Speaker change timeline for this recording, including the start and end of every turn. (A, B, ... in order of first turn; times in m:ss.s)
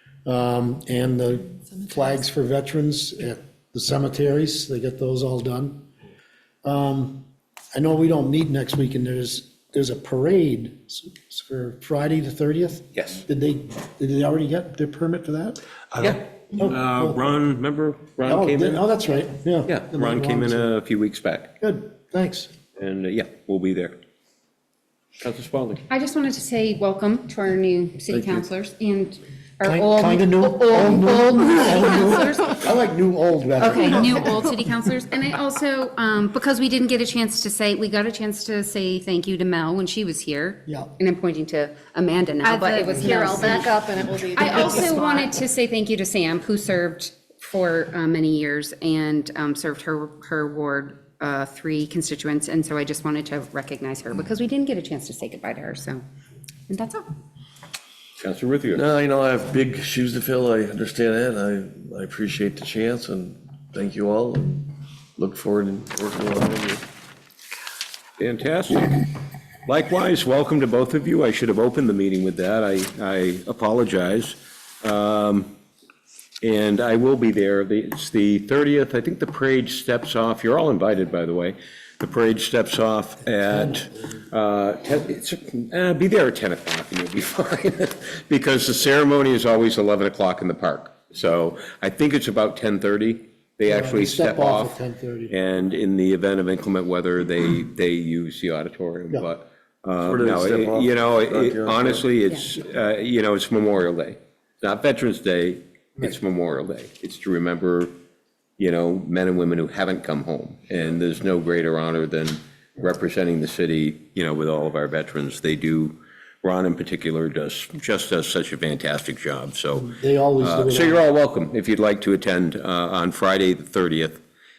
0:00.2-0:05.9 A
0:06.6-0:07.2 A
0:07.7-0:15.6 A
0:12.9-0:13.2 B
0:16.0-0:18.8 B
0:16.5-0:17.2 A
0:18.2-0:20.7 A
0:19.6-0:21.5 B
0:21.6-0:22.5 A
0:22.8-0:24.0 B
0:25.2-0:25.8 B
0:25.9-0:30.1 C
0:28.1-0:28.4 D
0:29.6-0:34.3 A
0:29.8-0:32.0 E
0:31.3-0:32.6 C
0:33.6-0:43.7 C
0:42.4-0:45.2 E
0:44.3-0:56.0 C
0:56.7-0:57.1 C
0:58.2-0:58.8 B
0:58.7-1:06.8 D
1:08.2-1:09.0 B
1:09.6-1:15.5 B
1:16.4-1:47.9 B
1:33.6-1:35.3 A
1:40.0-1:42.1 D
1:48.6-2:04.2 B
1:59.8-2:01.0 A